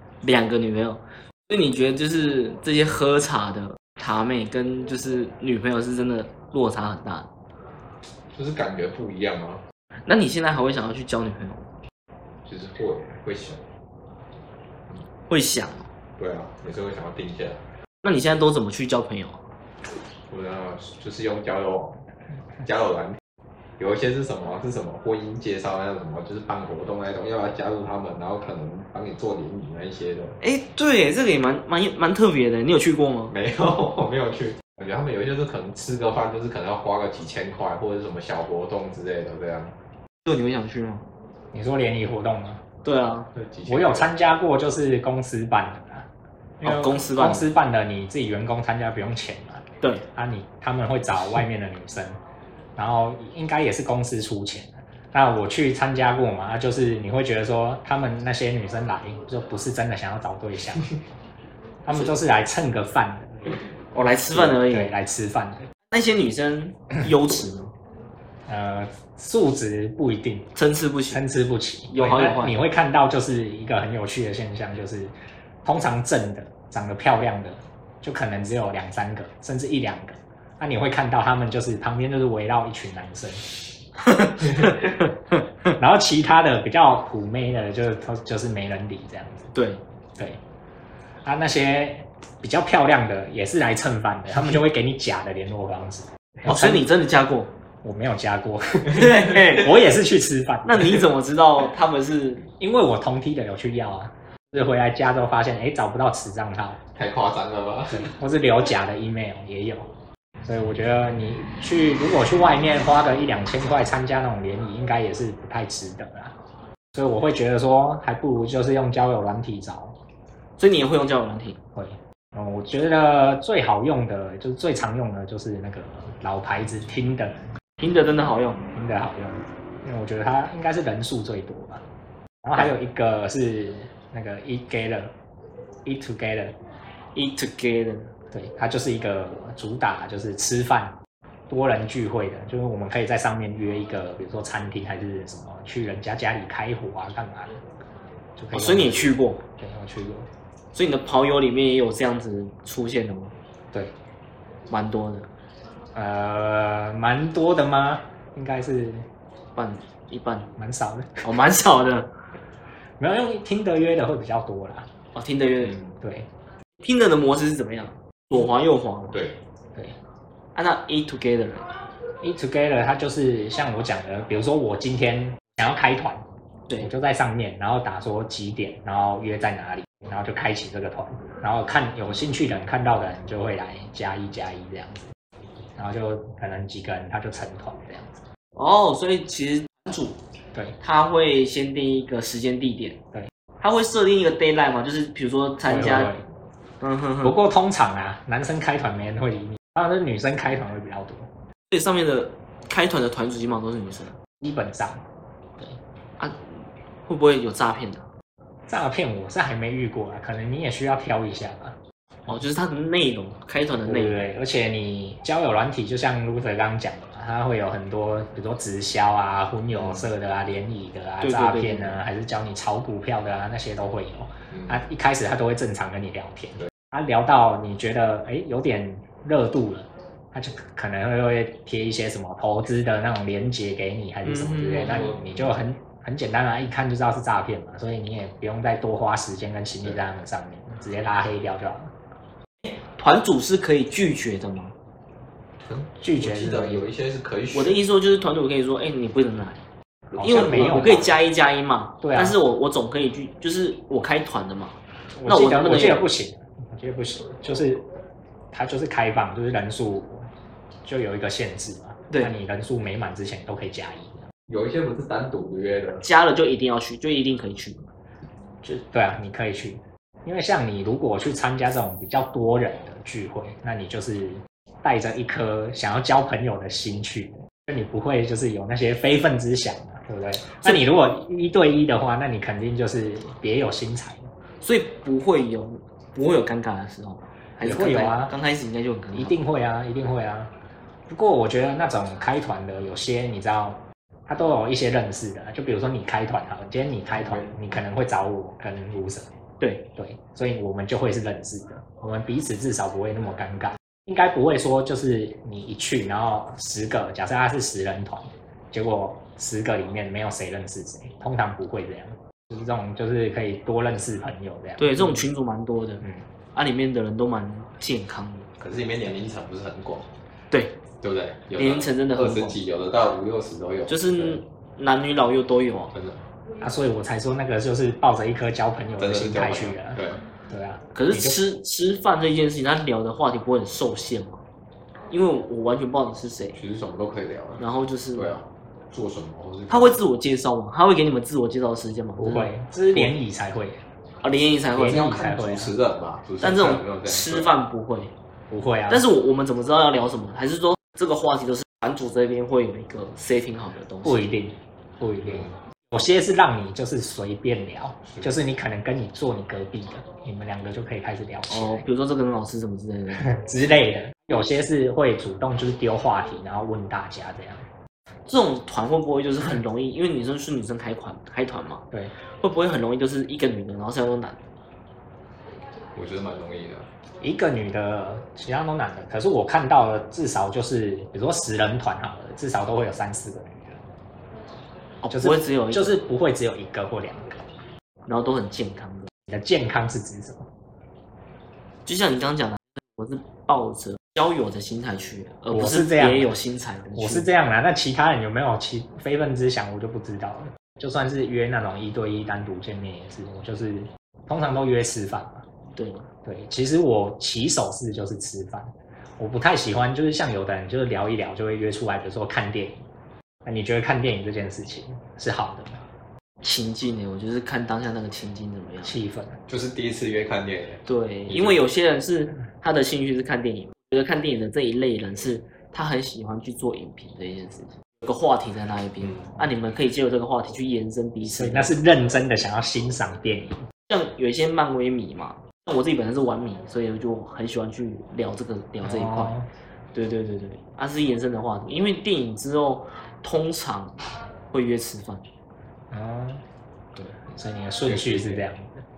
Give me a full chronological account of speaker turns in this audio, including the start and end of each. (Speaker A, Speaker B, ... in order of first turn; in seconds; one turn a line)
Speaker A: 0.2-7.3
Speaker B: 8.3-9.6
Speaker A: 10.1-11.7
Speaker B: 12.4-13.6
Speaker A: 15.3-15.9
Speaker B: 16.2-17.6
Speaker A: 18.0-19.4
Speaker B: 20.3-22.0
Speaker B: 22.6-23.2
Speaker B: 23.8-30.4
Speaker A: 30.4-33.3
Speaker B: 33.3-39.7
Speaker A: 40.2-41.0
Speaker C: 41.5-42.6
Speaker A: 42.8-43.3
Speaker B: 43.3-44.1
Speaker C: 43.7-46.1
Speaker C: 46.6-52.2
Speaker A: 46.6-47.5
Speaker C: 52.8-60.9
Speaker C: 61.8-63.6
Speaker A: 63.9-64.9
Speaker C: 64.3-65.7
Speaker A: 65.9-67.7
Speaker C: 68.5-70.5
Speaker A: 70.5-71.2
Speaker C: 71.1-75.1
Speaker A: 71.9-72.6
Speaker C: 75.6-83.5
Speaker A: 84.0-85.1
Speaker C: 85.8-89.5
Speaker A: 89.5-89.8
Speaker C: 91.2-96.9
Speaker A: 96.4-97.5
Speaker C: 97.8-101.0
Speaker A: 98.9-99.7
Speaker A: 100.6-102.5
Speaker C: 102.6-106.8
Speaker B: 106.9-108.1
Speaker C: 107.9-109.9
Speaker C: 110.4-116.3
Speaker C: 116.9-120.0
Speaker A: 120.6-121.6
Speaker C: 121.7-127.4
Speaker A: 127.8-128.7
Speaker C: 128.7-131.8
Speaker C: 132.4-135.1
Speaker C: 135.8-136.6
Speaker A: 137.1-138.1
Speaker C: 138.3-141.0
Speaker C: 141.5-147.6
Speaker C: 148.4-150.3
Speaker A: 148.5-149.4
Speaker A: 150.7-153.3
Speaker A: 154.7-155.3
Speaker C: 155.9-159.1
Speaker A: 159.6-160.5
Speaker C: 160.6-161.2
Speaker A: 161.2-162.1
Speaker C: 163.0-164.9
Speaker A: 165.1-165.8
Speaker C: 166.0-166.3
Speaker A: 166.8-169.2
Speaker B: 169.1-169.4
Speaker A: 170.5-171.7
Speaker C: 172.2-176.2
Speaker C: 176.8-185.1
Speaker C: 185.8-188.2
Speaker A: 188.5-190.2
Speaker A: 190.8-193.0
Speaker A: 193.6-196.1
Speaker C: 195.7-196.2
Speaker A: 196.8-197.3
Speaker C: 197.2-201.3
Speaker A: 201.7-204.2
Speaker C: 204.4-205.0
Speaker A: 206.2-206.5
Speaker A: 207.1-208.1
Speaker C: 208.7-211.8
Speaker A: 212.3-214.2
Speaker C: 213.8-241.9
Speaker B: 219.8-220.1
Speaker A: 221.2-222.0
Speaker B: 224.5-224.8
Speaker A: 234.2-235.1
Speaker B: 234.8-235.6
Speaker A: 242.8-244.7
Speaker B: 245.6-247.8
Speaker C: 246.0-246.8
Speaker A: 247.5-249.6
Speaker A: 250.1-256.0
Speaker C: 250.2-251.1
Speaker C: 252.0-252.4
Speaker C: 255.2-257.9
Speaker C: 258.5-260.3
Speaker C: 260.8-264.3
Speaker B: 264.5-266.0
Speaker A: 266.0-267.9
Speaker C: 268.6-284.3
Speaker A: 284.6-289.4
Speaker C: 287.6-288.3
Speaker C: 289.1-290.5
Speaker C: 291.1-299.3
Speaker B: 297.1-297.7
Speaker A: 299.6-299.9
Speaker C: 299.9-315.2
Speaker A: 314.8-318.5
Speaker B: 318.6-320.1
Speaker A: 320.5-320.8
Speaker B: 321.0-324.4
Speaker A: 321.6-322.6
Speaker A: 323.9-325.9
Speaker B: 325.9-326.2
Speaker C: 326.6-331.4
Speaker B: 329.0-330.2
Speaker A: 330.9-334.4
Speaker A: 335.1-336.6
Speaker B: 336.6-337.6
Speaker A: 337.6-338.3
Speaker B: 338.1-340.0
Speaker A: 339.7-342.5
Speaker C: 342.2-343.8
Speaker A: 344.2-345.1
Speaker C: 344.8-345.7
Speaker B: 344.8-347.5
Speaker A: 346.4-348.1
Speaker C: 348.5-349.1
Speaker A: 348.9-354.2
Speaker C: 354.0-361.8
Speaker B: 355.2-355.5
Speaker A: 361.5-363.3
Speaker C: 363.1-367.6
Speaker A: 368.3-371.9
Speaker A: 372.4-374.4
Speaker B: 375.9-376.9
Speaker C: 377.2-383.8
Speaker A: 385.0-386.0
Speaker C: 385.1-387.4
Speaker A: 388.1-389.1
Speaker C: 389.3-390.5
Speaker A: 391.9-397.3
Speaker C: 395.5-396.3
Speaker C: 396.9-405.4
Speaker A: 405.7-406.1
Speaker C: 406.2-412.8
Speaker C: 413.4-415.8
Speaker A: 416.4-419.0
Speaker C: 418.8-419.4
Speaker B: 419.5-421.6
Speaker A: 420.9-431.8
Speaker C: 431.2-433.7
Speaker A: 433.9-439.4
Speaker C: 438.8-439.5
Speaker A: 439.9-445.2
Speaker C: 445.9-446.4
Speaker C: 447.2-448.8
Speaker B: 447.9-448.4